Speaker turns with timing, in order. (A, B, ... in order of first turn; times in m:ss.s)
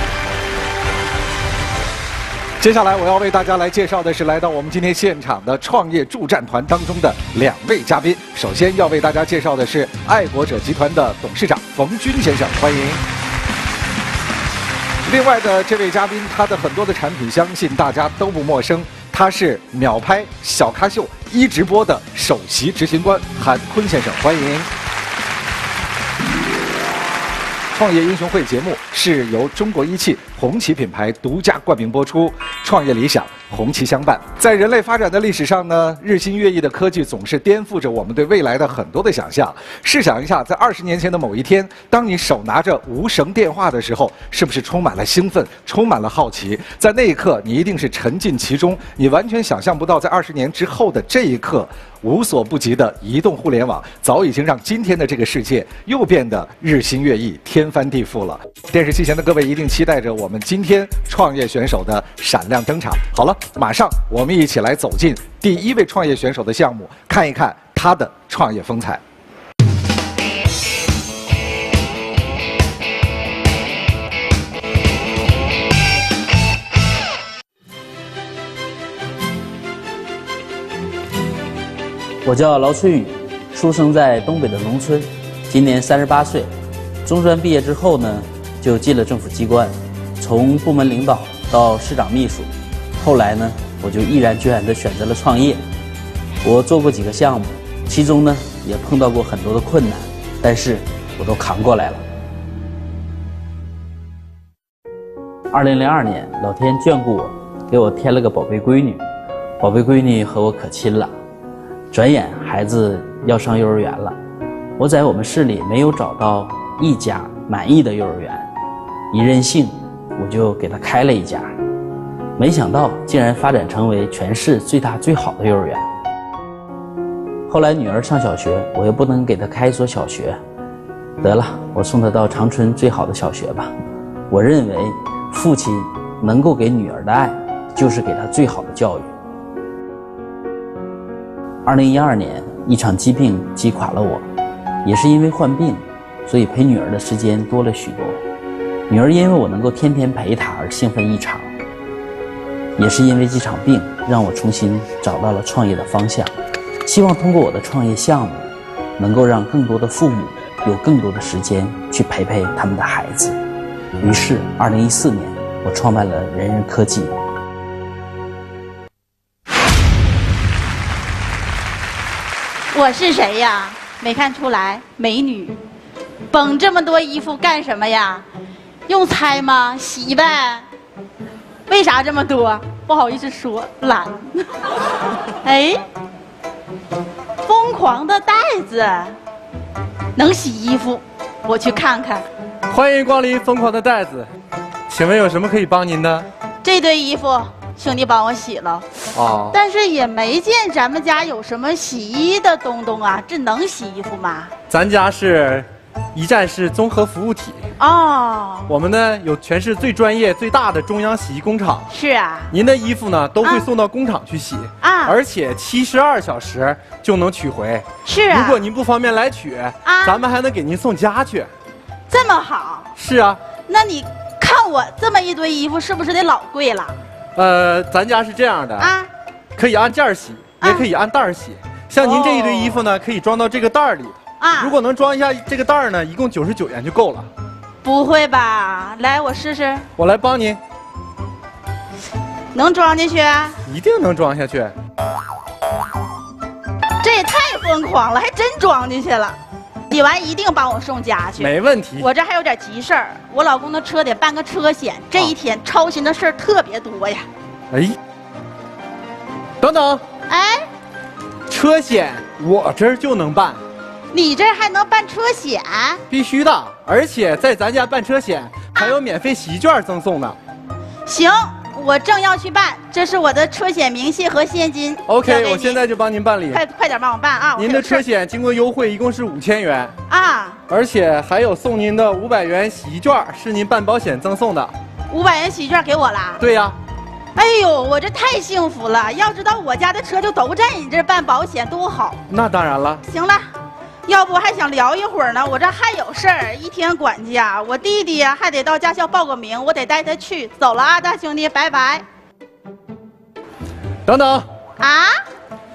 0:02.6-0:13.0 A
0:15.0-0:24.7 A
0:27.7-1:09.0 A
1:22.2-1:26.5 B
1:27.0-1:35.6 B
1:36.4-1:42.0 B
1:45.5-1:49.0 B
1:49.6-1:51.1 B
1:51.9-1:54.2 B
1:54.8-1:58.5 B
1:59.1-2:01.5 B
2:02.4-2:05.8 B
2:07.5-2:10.4 B
2:11.2-2:13.7 B
2:14.3-2:19.1 B
2:21.6-2:24.2 B
2:24.8-2:28.2 B
2:28.9-2:31.5 B
2:32.8-2:36.3 B
2:36.8-2:43.4 B
2:44.0-2:47.1 B
2:52.7-2:55.6 C
2:56.3-2:58.2 C
2:58.9-3:00.6 C
3:01.7-3:04.6 C
3:05.4-3:05.8 C
3:07.4-3:09.1 C
3:10.2-3:12.2 C
3:12.7-3:14.3 D
3:14.9-3:16.3 D
3:16.6-3:18.8 C
3:19.1-3:19.6 D
3:19.5-3:24.5 C
3:24.7-3:27.7 D
3:27.8-3:28.7 C
3:28.7-3:31.9 D
3:31.9-3:32.5 C
3:32.5-3:41.5 D
3:34.8-3:35.1 C
3:38.0-3:38.6 C
3:39.8-3:40.2 C
3:42.1-3:42.9 C
3:43.0-3:43.4 D
3:43.7-3:47.0 C
3:47.4-3:48.9 D
3:48.8-3:49.1 C
3:49.6-3:57.3 D
3:52.0-3:52.7 C
3:54.4-3:54.7 C
3:57.8-3:59.8 C
4:00.0-4:00.6 D
4:02.5-4:03.6 C
4:03.6-4:04.7 D
4:07.0-4:09.4 C
4:09.9-4:17.2 C
4:11.4-4:12.1 D
4:17.7-4:18.0 D
4:19.6-4:20.0 D
4:20.3-4:20.7 C
4:21.5-4:23.6 D
4:24.1-4:26.0 C
4:26.1-4:30.4 D
4:31.0-4:35.8 C
4:35.0-4:36.6 D
4:36.5-4:38.0 C
4:37.6-4:39.9 D
4:40.1-4:40.6 C
4:40.7-4:44.7 D
4:45.1-4:46.4 C
4:46.4-4:46.7 D
4:47.3-4:52.2 C
4:52.3-4:53.0 D
4:53.0-4:53.4 C
4:54.0-5:02.0 C
5:04.0-5:04.4 D
5:04.8-5:05.1 C